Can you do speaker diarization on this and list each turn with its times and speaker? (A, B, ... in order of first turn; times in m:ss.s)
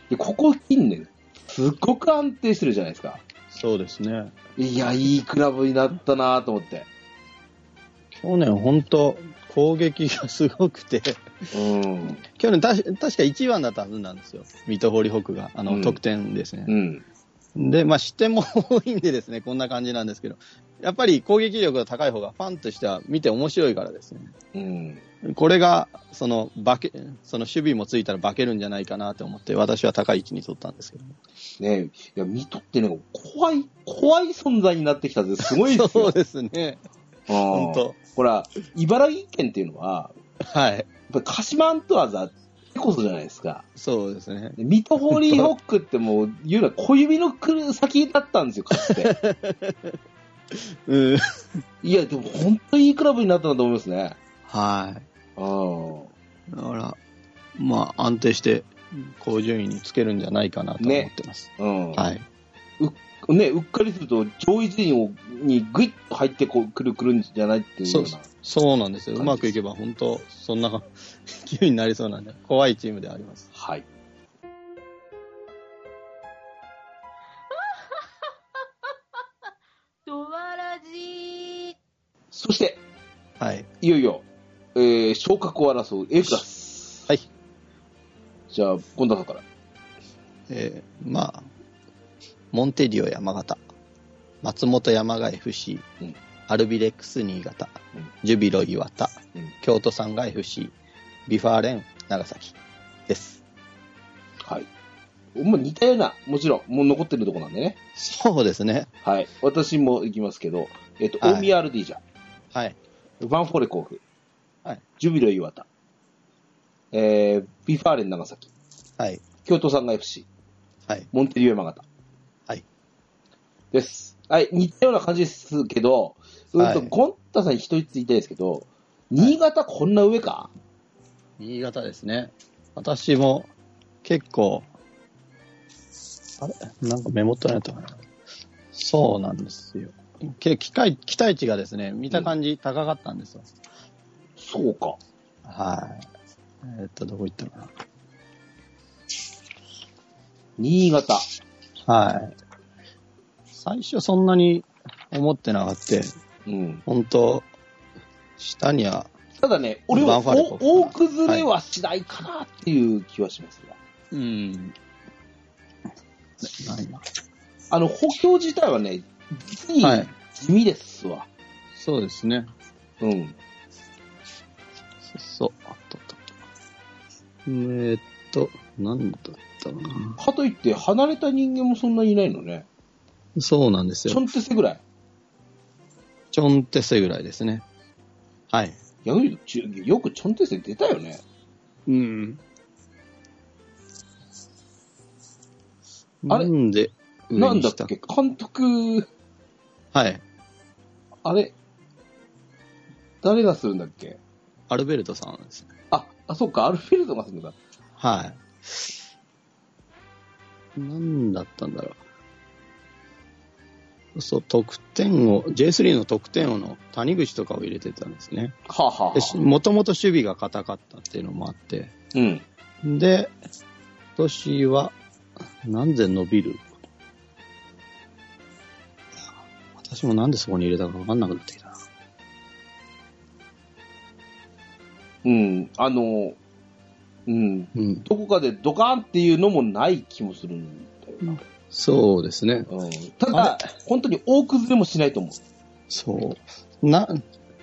0:00.1-0:03.2 A
0:03.5-0:04.3 B
0:04.6-0:06.9 A
0:08.1-0:11.2 B
0:11.5-0:12.2 A
0:12.2-0:16.7 B
0:15.7-0:16.0 A
0:16.7-0:17.0 A
0:17.5-0:24.3 B
0:24.5-0:25.0 A
0:25.2-0:31.2 B
0:31.6-0:36.1 A
0:35.6-0:36.8 B
0:37.3-0:40.1 A
0:37.4-0:38.0 B
0:40.4-0:40.9 B
0:41.1-0:43.6 A
0:43.8-0:45.5 B
0:44.6-0:49.1 A
0:48.8-0:50.0 B
0:50.5-0:51.6 B
0:51.8-0:54.2 A
0:54.5-0:55.0 B
0:55.4-0:56.1 A
0:56.5-0:57.0 B
0:57.5-1:02.2 B
1:00.8-1:02.0 A
1:02.8-1:08.3 A
1:07.8-1:13.5 B
1:09.2-1:09.5 A
1:13.5-1:13.8 A
1:17.6-1:17.8 C
1:20.1-1:21.7 C
1:22.3-1:22.8 A
1:23.4-1:23.7 B
1:23.8-1:27.1 A
1:28.5-1:29.4 A
1:30.5-1:31.5 B
1:32.5-1:33.6 B
1:34.4-1:35.8 B
1:36.5-1:40.7 B
1:41.2-1:42.5 B
1:43.1-1:43.4 B
1:44.4-1:44.7 A
1:45.3-1:47.8 A
1:48.0-1:48.9 B
1:49.0-1:52.0 A
1:51.2-1:51.5 B
1:53.2-1:54.0 A
1:55.0-1:55.7 A
1:56.9-1:58.5 A
1:59.0-1:59.2 B
1:59.4-2:00.3 A
2:01.1-2:01.8 A
2:03.7-2:10.5 A
2:06.6-2:06.9 B
2:11.4-2:13.5 B
2:14.0-2:14.7 B
2:16.4-2:18.0 B
2:18.7-2:23.5 B
2:24.4-2:25.0 A
2:25.4-2:26.1 B
2:26.6-2:27.7 B
2:30.6-2:31.3 A
2:31.8-2:32.3 B
2:33.5-2:36.1 B
2:36.5-2:36.8 A
2:36.8-2:37.5 B
2:38.4-2:39.1 B
2:39.4-2:43.8 A
2:39.9-2:41.4 B
2:44.1-2:44.7 B
2:46.4-2:47.0 B
2:47.7-2:51.3 A
2:49.8-2:50.1 B
2:51.7-2:52.5 B
2:53.0-2:53.4 A
2:55.0-2:56.3 B
2:57.4-3:00.2 B
3:00.2-3:02.6 A
3:03.4-3:04.2 B
3:04.1-3:04.8 A
3:06.3-3:07.6 B
3:08.5-3:08.8 B
3:09.0-3:11.2 A
3:11.9-3:12.4 B
3:16.2-3:17.9 B
3:17.3-3:19.1 A
3:19.9-3:20.2 B
3:21.2-3:21.5 A
3:23.2-3:24.2 A
3:24.7-3:25.7 B
3:25.9-3:27.6 A
3:28.0-3:29.0 B
3:30.7-3:32.0 B
3:34.1-3:38.6 B
3:38.7-3:39.4 A
3:39.1-3:41.9 B
3:42.1-3:42.4 A
3:42.8-3:43.3 B
3:44.2-3:44.9 B
3:45.6-3:46.7 B
3:49.8-3:51.8 B
3:55.2-3:56.4 A
3:57.3-4:01.4 A
3:57.7-3:58.1 B
4:01.7-4:02.7 B
4:02.7-4:05.4 A
4:03.3-4:03.6 B
4:05.9-4:07.2 B